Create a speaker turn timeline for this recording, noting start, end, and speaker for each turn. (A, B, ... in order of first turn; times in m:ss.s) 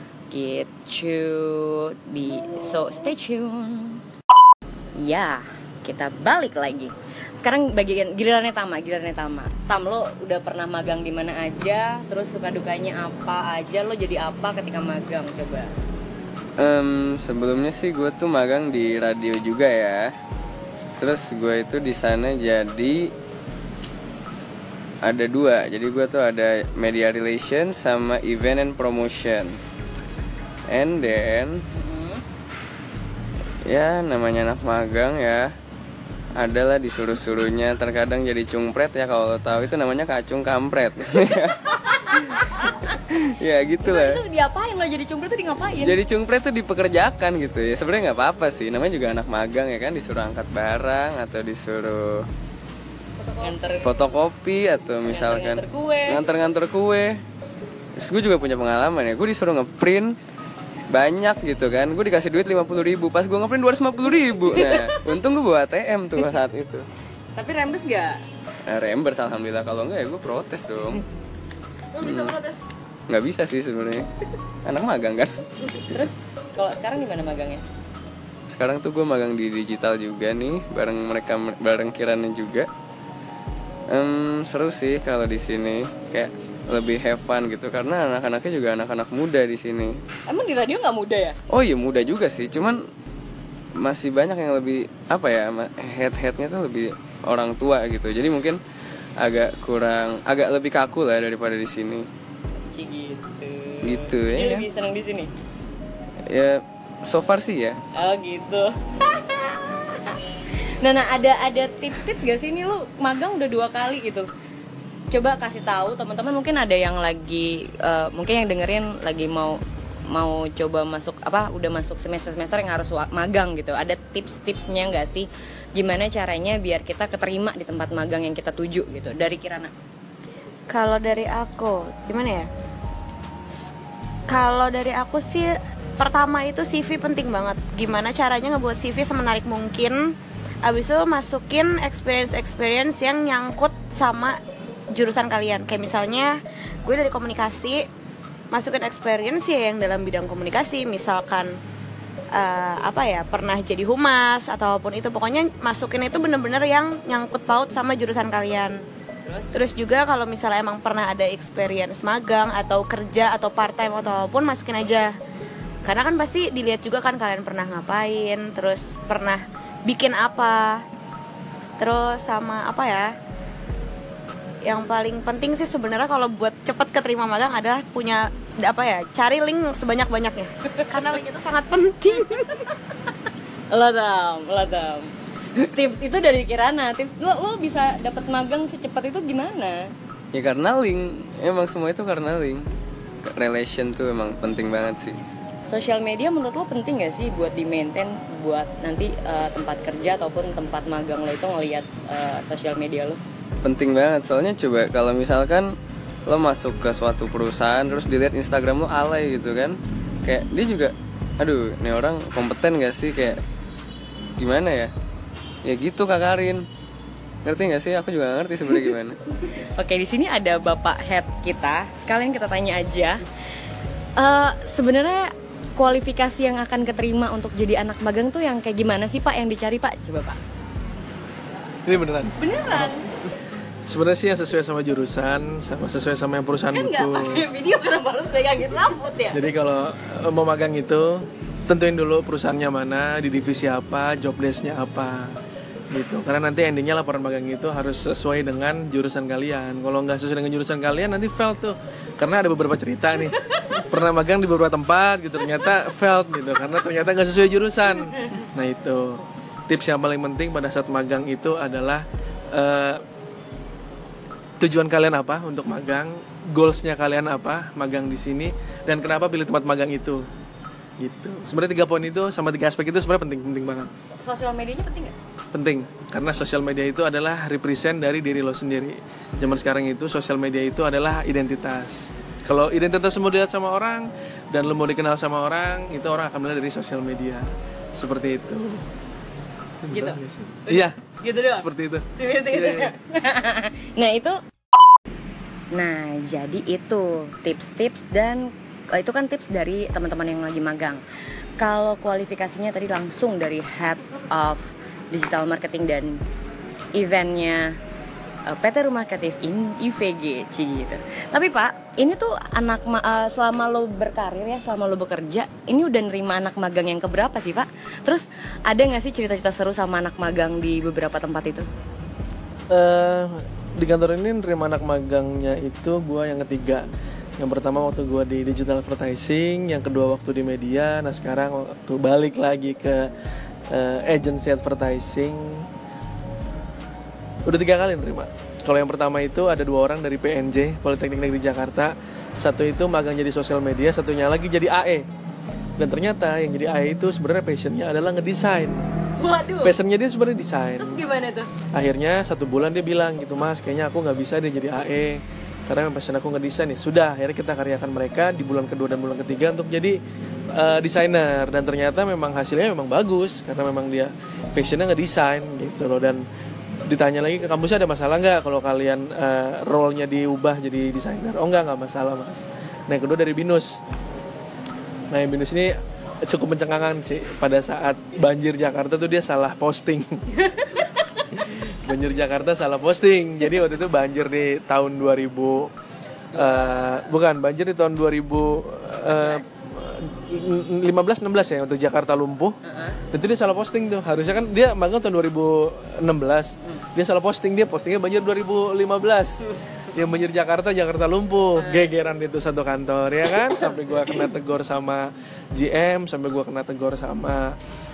0:00.3-0:04.0 A
0:05.0-0:15.7 A
0:16.6-0:20.0 B
0:21.0-0:23.0 B
0:25.0-0:29.6 B
0:30.7-0:31.6 B
0:31.7-0:32.2 A
0:33.6-0:35.5 B
0:36.4-0:42.4 B
0:42.1-0:43.0 A
0:43.1-0:44.2 B
0:43.8-0:46.0 A
0:45.8-0:52.2 B
0:53.4-0:53.9 A
0:53.8-0:57.1 B
0:55.1-0:56.2 A
0:58.0-1:00.1 B
1:00.9-1:06.9 B
1:04.5-1:05.0 A
1:07.3-1:08.2 A
1:08.7-1:11.0 B
1:12.0-1:12.4 B
1:13.1-1:14.1 B
1:14.6-1:15.3 B
1:15.8-1:17.6 A
1:18.5-1:22.7 B
1:23.9-1:30.0 B
1:30.3-1:31.4 A
1:31.5-1:32.8 B
1:33.8-1:38.6 B
1:39.2-1:42.0 B
1:42.6-1:45.3 A
1:43.8-1:44.6 B
1:46.3-1:47.8 B
1:48.0-1:50.2 A
1:50.8-1:54.3 A
1:55.1-2:09.7 A
2:10.7-2:12.5 C
2:14.3-2:24.4 C
2:24.9-2:27.9 C
2:28.5-2:31.6 C
2:32.3-2:38.8 C
2:39.2-2:39.5 A
2:39.5-2:45.1 C
2:45.8-2:50.8 C
2:51.8-2:53.1 C
2:54.6-3:02.6 C
3:03.7-3:09.9 A
3:10.3-3:12.6 B
3:13.3-3:15.2 B
3:15.6-3:23.2 A
3:23.6-3:25.7 B
3:26.3-3:33.4 B
3:34.4-3:34.9 B
3:35.6-3:36.6 B
3:37.4-3:39.2 B
3:39.6-3:43.2 A
3:44.2-3:50.4 A
3:51.8-3:53.0 D
3:52.4-3:53.1 A
3:53.9-3:57.5 D
3:56.7-3:59.5 A
3:59.3-4:05.4 D
4:05.9-4:23.0 D
4:24.6-4:30.3 D
4:31.0-4:33.9 D
4:34.2-4:35.2 A
4:35.5-4:48.9 D
4:49.8-4:52.9 D
4:49.9-4:51.6 A
4:52.2-4:54.4 A
4:55.7-5:01.0 A
5:01.6-5:06.2 A
5:06.9-5:07.8 A
5:08.4-5:21.7 A
5:22.7-5:26.9 D
5:27.4-5:33.1 D
5:33.7-5:35.7 D
5:37.4-5:45.1 D
5:45.8-5:48.9 D
5:49.2-5:49.7 A
5:49.6-5:51.0 D
5:50.8-5:51.5 A
5:51.7-6:00.0 D
6:00.5-6:06.2 D
6:06.8-6:13.8 D
6:15.1-6:20.5 D
6:21.3-6:25.7 D
6:26.3-6:32.6 D
6:26.3-6:27.0 A
6:29.1-6:29.4 A
6:32.6-6:33.0 A
6:33.1-6:47.6 D
6:41.6-6:41.9 A